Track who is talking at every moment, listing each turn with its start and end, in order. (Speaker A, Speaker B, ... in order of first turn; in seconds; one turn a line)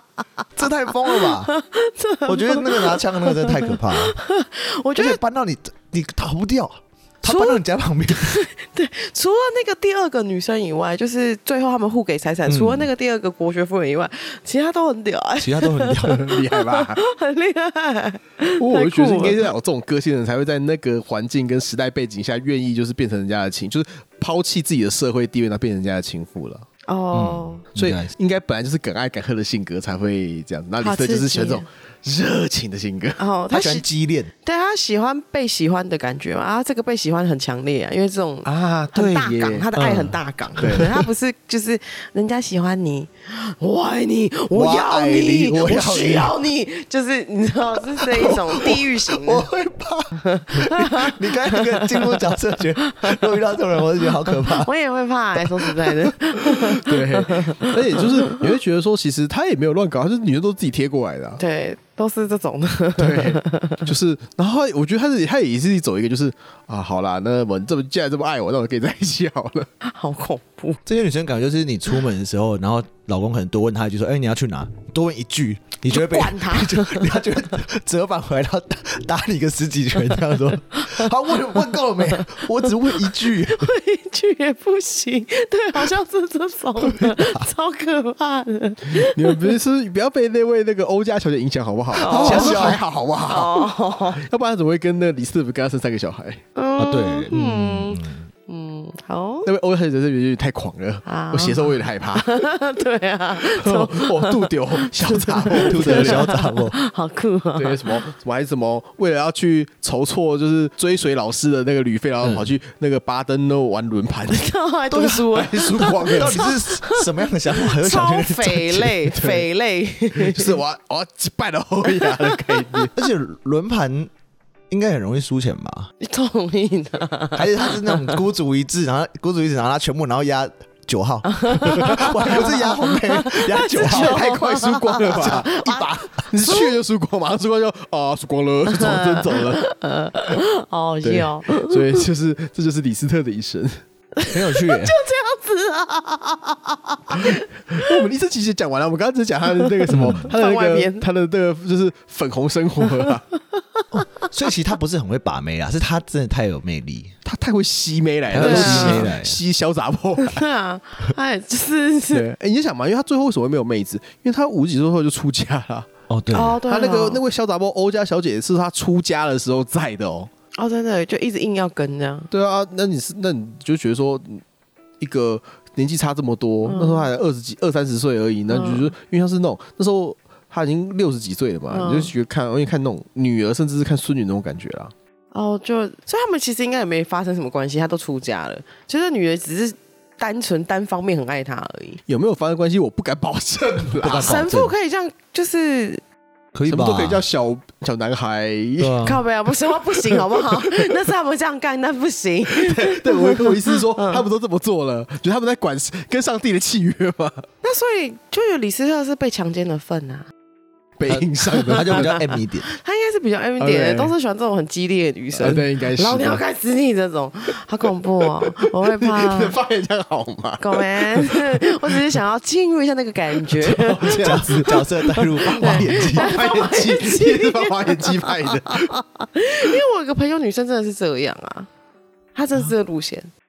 Speaker A: 0.6-1.5
Speaker B: 1.0-5.2
Speaker A: 2.3-4.2
Speaker A: 5.0-8.4
Speaker B: 7.2-19.4
Speaker A: 12.5-12.9
Speaker A: 15.4-16.2
Speaker C: 16.0-17.0
Speaker C: 18.6-26.7
Speaker B: 26.9-27.6
Speaker A: 27.1-28.1
Speaker C: 27.8-33.2
Speaker B: 30.8-31.7
Speaker B: 33.2-33.9
Speaker A: 33.5-34.3
Speaker B: 34.4-49.5
Speaker C: 38.5-39.7
Speaker A: 39.8-40.9
Speaker C: 40.6-41.0
Speaker A: 44.5-46.4
Speaker A: 48.0-54.7
Speaker B: 50.1-53.5
Speaker B: 54.2-58.3
Speaker A: 55.4-55.7
Speaker C: 56.4-61.4
Speaker B: 61.4-63.9
Speaker C: 63.0-69.7
Speaker B: 69.8-70.8
Speaker A: 70.8-83.7
Speaker B: 75.9-77.6
Speaker B: 80.7-89.5
Speaker A: 86.8-87.4
Speaker C: 89.0-96.4
Speaker B: 92.0-94.2
Speaker A: 92.0-92.8
Speaker B: 96.6-99.5
Speaker A: 96.8-98.3
Speaker C: 99.5-102.4
Speaker B: 101.1-108.0
Speaker C: 103.4-106.3
Speaker A: 105.5-106.8
Speaker C: 107.6-116.5
Speaker A: 112.2-112.5
Speaker B: 114.3-120.6
Speaker A: 116.1-119.0
Speaker C: 119.1-119.5
Speaker C: 120.1-122.9
Speaker B: 121.9-122.9
Speaker A: 123.0-124.1
Speaker A: 124.7-125.9
Speaker B: 126.0-128.2
Speaker A: 127.3-134.2
Speaker B: 131.2-136.8
Speaker C: 133.8-139.6
Speaker A: 135.2-136.0
Speaker B: 138.7-142.0
Speaker C: 141.0-143.8
Speaker B: 144.2-148.0
Speaker A: 144.3-145.0
Speaker C: 147.7-153.3
Speaker B: 149.7-151.1
Speaker A: 149.9-150.3
Speaker B: 153.5-154.3
Speaker A: 153.9-157.1
Speaker C: 157.2-160.4
Speaker A: 158.3-159.4
Speaker B: 158.4-159.1
Speaker B: 160.2-162.3
Speaker C: 162.1-165.9
Speaker A: 166.1-166.6
Speaker B: 166.3-167.2
Speaker C: 166.7-170.3
Speaker B: 170.6-172.3
Speaker C: 172.3-174.4
Speaker C: 175.0-184.9
Speaker B: 176.7-177.1
Speaker B: 178.5-178.9
Speaker B: 181.7-182.1
Speaker B: 185.3-192.0
Speaker C: 192.1-194.4
Speaker A: 194.0-194.7
Speaker B: 194.1-196.0
Speaker A: 196.5-197.2
Speaker C: 196.7-199.1
Speaker A: 198.8-199.2
Speaker B: 199.0-204.3
Speaker C: 199.9-201.0
Speaker C: 202.5-207.5
Speaker B: 207.6-210.3
Speaker C: 211.0-212.1
Speaker A: 211.1-212.7
Speaker B: 211.7-219.6
Speaker C: 213.6-214.2
Speaker C: 215.4-216.4
Speaker C: 218.4-222.2
Speaker B: 220.6-231.7
Speaker C: 223.4-228.9
Speaker A: 224.1-226.3
Speaker B: 232.3-233.3